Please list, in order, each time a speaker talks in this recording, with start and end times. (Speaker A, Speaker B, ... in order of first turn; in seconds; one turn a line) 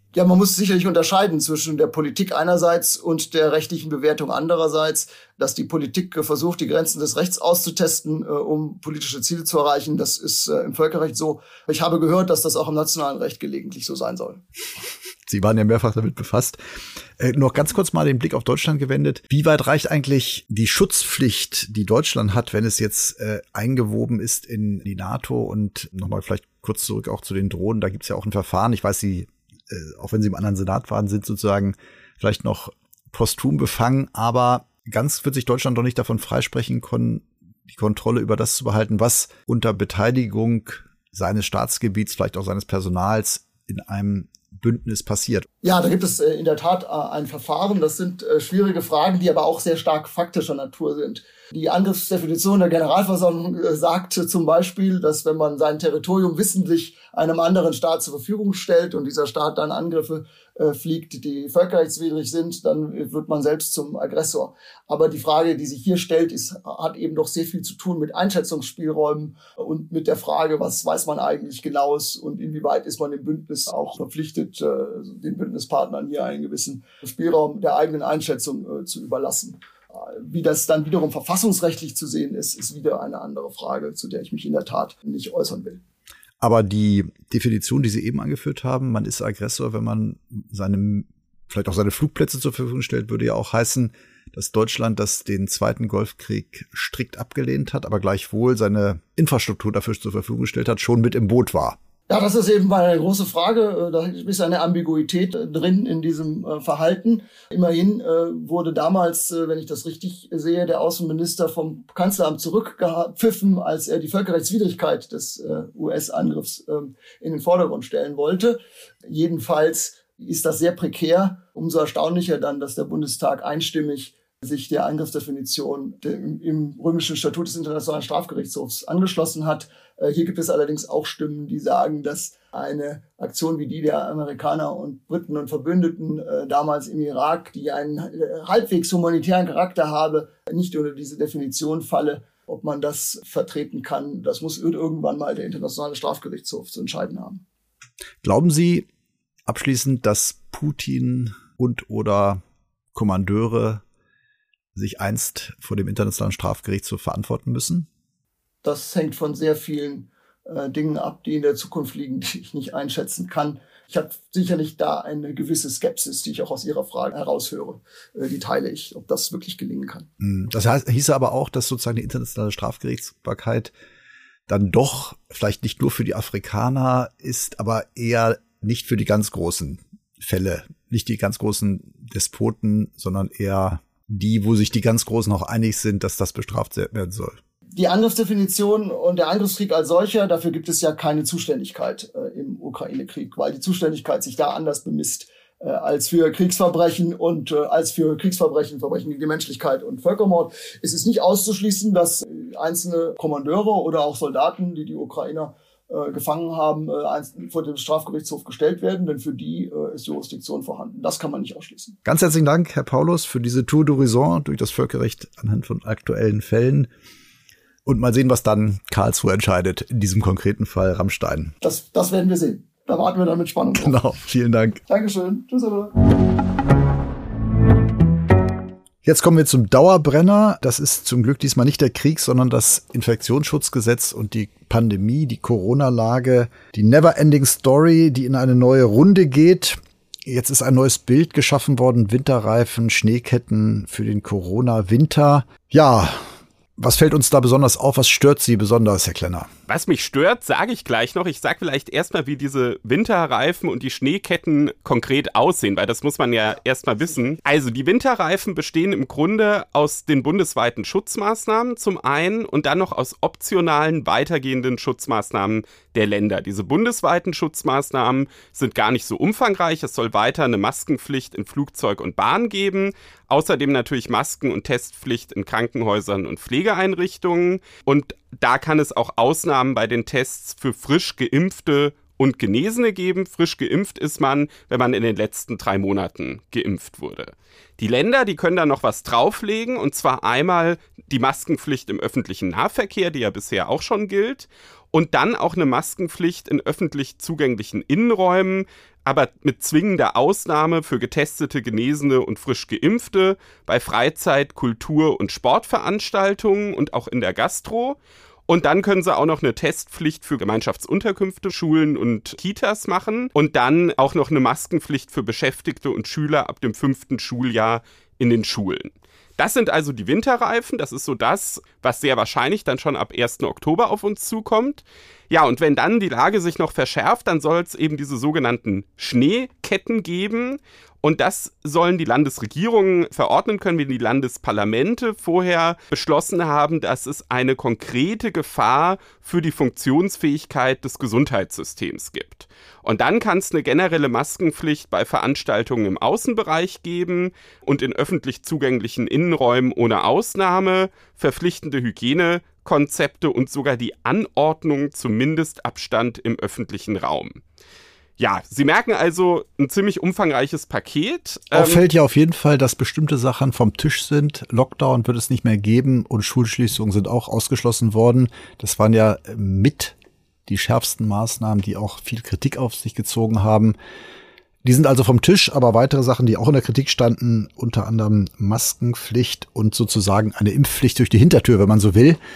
Speaker A: 0.1-14.4
Speaker B: 15.3-16.6
Speaker B: 17.2-45.5
Speaker A: 45.6-85.8
Speaker B: 86.4-101.8
Speaker A: 102.1-147.4
Speaker B: 148.2-148.9
Speaker B: 149.5-152.4
Speaker B: 152.9-153.8
Speaker B: 154.7-157.9
Speaker A: 158.6-170.1
Speaker B: 170.2-173.7
Speaker B: 174.5-187.4
Speaker A: 187.7-212.0
Speaker B: 212.1-216.9
Speaker B: 217.8-221.5
Speaker A: 221.6-223.9
Speaker B: 223.8-224.8
Speaker A: 224.9-225.9
Speaker B: 229.0-246.2
Speaker B: 246.8-249.5
Speaker C: 249.7-357.4
Speaker C: 358.2-361.8
Speaker B: 361.5-369.9
Speaker B: 370.5-373.7
Speaker B: 374.6-382.2